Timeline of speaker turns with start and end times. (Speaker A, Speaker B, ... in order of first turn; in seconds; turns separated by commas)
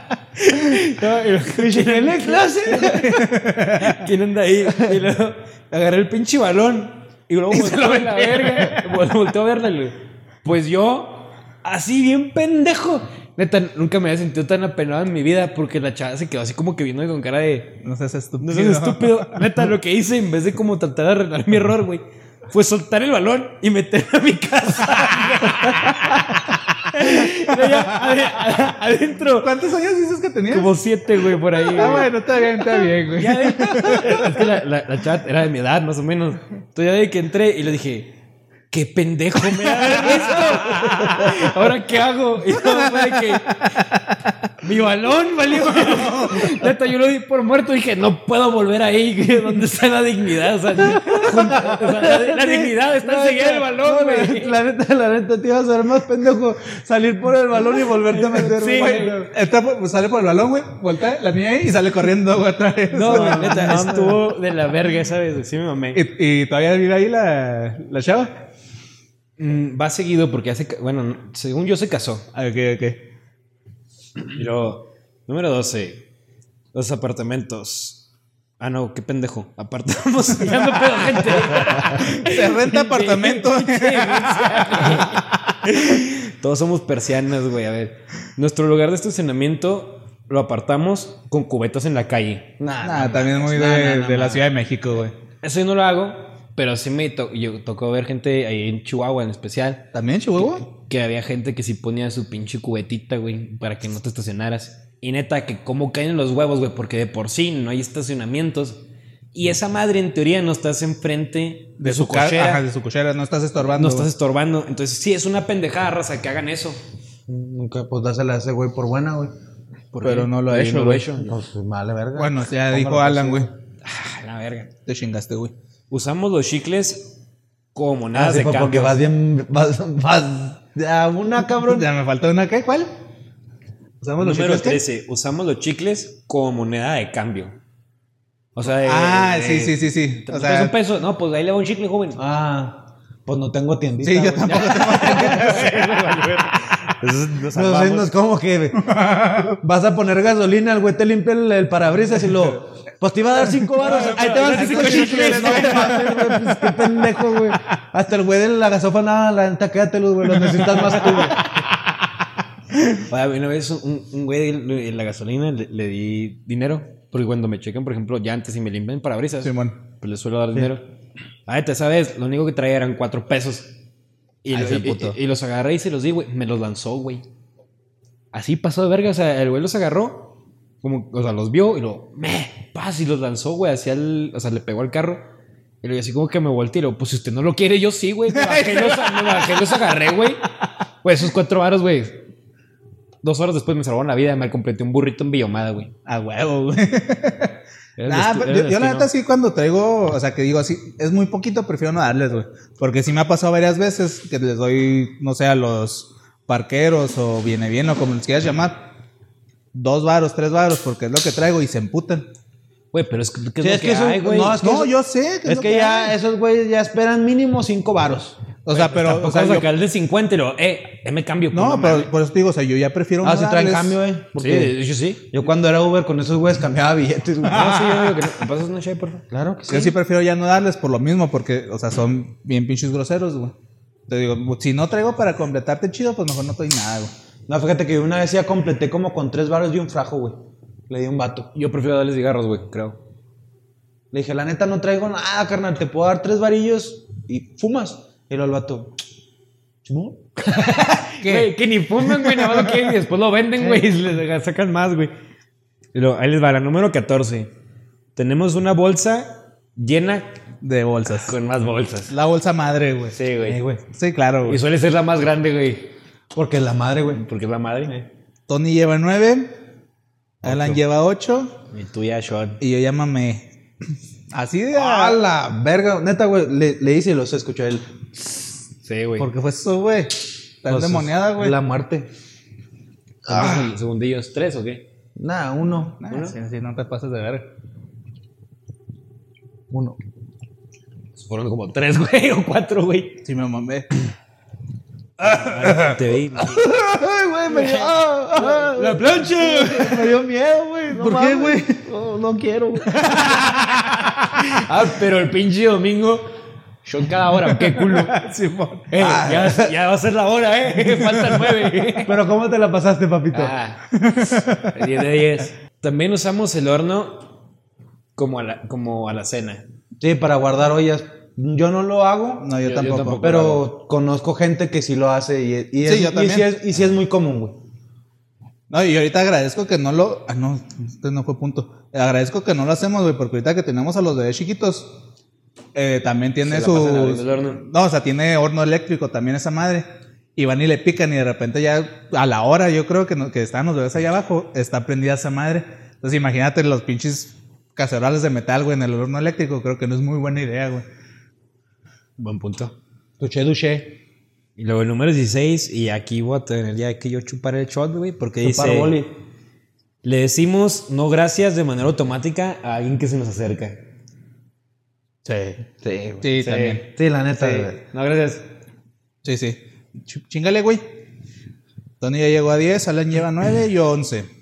Speaker A: 0.4-17.8, Speaker B: 1.5-3.4, Speaker C: 3.0-4.0, Speaker B: 4.7-4.9, Speaker C: 7.5-9.0, Speaker C: 17.8-19.6, Speaker A: 18.4-29.5, Speaker C: 25.3-26.1, Speaker C: 27.5-28.2, Speaker C: 29.3-30.8, Speaker A: 30.5-38.1, Speaker C: 31.7-34.4, Speaker A: 38.7-43.7, Speaker C: 39.7-41.4, Speaker C: 42.6-43.0, Speaker A: 44.6-54.6, Speaker C: 45.7-46.5, Speaker B: 50.9-59.2, Speaker C: 51.3-51.8, Speaker A: 58.1-59.2, Speaker C: 58.3-64.0, Speaker A: 62.9-66.0, Speaker B: 63.0-64.3, Speaker C: 65.9-68.3, Speaker A: 69.4-72.3, Speaker C: 72.3-73.1, Speaker A: 74.3-76.1, Speaker A: 76.7-78.1, Speaker A: 78.6-92.5, Speaker C: 81.5-85.6, Speaker B: 92.6-94.4, Speaker C: 92.8-95.1, Speaker A: 95.4-99.9, Speaker C: 99.9-100.7, Speaker A: 100.5-112.6, Speaker C: 111.8-114.1, Speaker A: 113.7-116.8, Speaker B: 117.3-119.3, Speaker A: 119.9-121.3, Speaker C: 120.0-121.1, Speaker B: 121.2-123.5, Speaker C: 122.2-123.5, Speaker A: 123.8-124.7, Speaker C: 124.9-125.5, Speaker A: 125.9-127.2, Speaker A: 127.7-129.0, Speaker B: 128.1-131.9, Speaker C: 131.6-132.9, Speaker C: 134.0-134.8, Speaker A: 134.2-137.6, Speaker A: 138.6-142.2, Speaker C: 138.8-140.8, Speaker B: 142.2-145.7, Speaker C: 144.0-145.8, Speaker A: 144.5-148.1, Speaker B: 147.5-148.9, Speaker C: 148.8-149.6, Speaker B: 149.6-161.4, Speaker C: 153.8-157.6, Speaker A: 153.9-156.1, Speaker C: 160.4-161.7, Speaker A: 163.1-170.9, Speaker C: 169.4-169.8, Speaker A: 171.5-173.8, Speaker A: 174.4-177.3, Speaker C: 174.5-175.2, Speaker A: 178.3-185.3, Speaker A: 185.8-190.5, Speaker C: 188.3-189.6, Speaker A: 191.0-192.3, Speaker A: 193.2-195.9, Speaker C: 196.1-208.9, Speaker A: 198.0-199.1, Speaker C: 209.7-212.3, Speaker A: 212.9-214.6, Speaker B: 213.6-218.4, Speaker C: 214.6-216.2, Speaker C: 218.7-219.7, Speaker A: 218.7-222.1, Speaker C: 221.5-224.0, Speaker B: 223.2-227.8, Speaker A: 224.4-225.3, Speaker A: 227.4-229.2, Speaker C: 227.5-228.3, Speaker B: 229.3-229.9, Speaker C: 229.7-233.6, Speaker C: 234.1-237.1, Speaker B: 237.5-240.4, Speaker B: 240.9-241.5, Speaker A: 241.6-243.0, Speaker B: 244.1-249.0, Speaker B: 249.8-250.2, Speaker A: 250.4-255.1, Speaker C: 251.2-251.5, Speaker C: 252.2-252.9, Speaker A: 255.9-257.5, Speaker A: 258.2-260.4, Speaker C: 260.6-261.3, Speaker A: 261.2-262.1, Speaker C: 262.1-263.2, Speaker A: 263.1-263.6, Speaker B: 263.4-263.8, Speaker C: 263.9-264.6, Speaker A: 264.5-265.9, Speaker B: 266.3-267.2, Speaker A: 267.1-268.1, Speaker C: 268.5-269.5, Speaker A: 270.4-270.8, Speaker C: 270.4-271.6, Speaker A: 271.7-272.6, Speaker C: 272.6-273.5, Speaker C: 274.3-275.2, Speaker B: 274.8-277.9, Speaker A: 278.8-279.3, Speaker C: 279.2-281.6, Speaker B: 280.7-282.1, Speaker A: 283.3-284.9, Speaker B: 283.3-283.7, Speaker B: 285.2-286.0, Speaker C: 286.0-287.5, Speaker A: 286.1-286.4, Speaker B: 289.7-290.0, Speaker A: 291.2-293.2, Speaker C: 293.2-293.9, Speaker A: 295.2-296.7, Speaker C: 295.4-295.9, Speaker B: 296.4-303.0, Speaker A: 297.5-300.1, Speaker C: 300.9-301.7, Speaker C: 303.0-304.4, Speaker A: 303.1-303.4, Speaker A: 304.3-306.3, Speaker A: 306.8-308.2, Speaker C: 307.6-309.1, Speaker A: 308.9-312.2, Speaker B: 309.0-309.7, Speaker C: 310.8-311.6, Speaker B: 312.1-313.5, Speaker A: 313.3-313.9, Speaker C: 313.9-314.8, Speaker A: 314.7-317.4, Speaker A: 318.2-319.7, Speaker B: 320.0-322.5, Speaker C: 322.4-323.2, Speaker A: 322.6-323.7, Speaker B: 323.1-327.6, Speaker C: 325.8-326.5, Speaker C: 328.7-334.9, Speaker C: 335.7-339.9, Speaker A: 336.4-337.6, Speaker C: 340.4-350.9, Speaker A: 352.2-352.8, Speaker B: 353.2-354.0, Speaker A: 354.6-359.0, Speaker B: 358.4-359.1, Speaker A: 360.0-363.8, Speaker C: 365.3-365.6, Speaker B: 365.6-367.8, Speaker C: 366.2-366.9, Speaker A: 366.4-368.5, Speaker C: 369.2-370.9, Speaker C: 372.0-374.3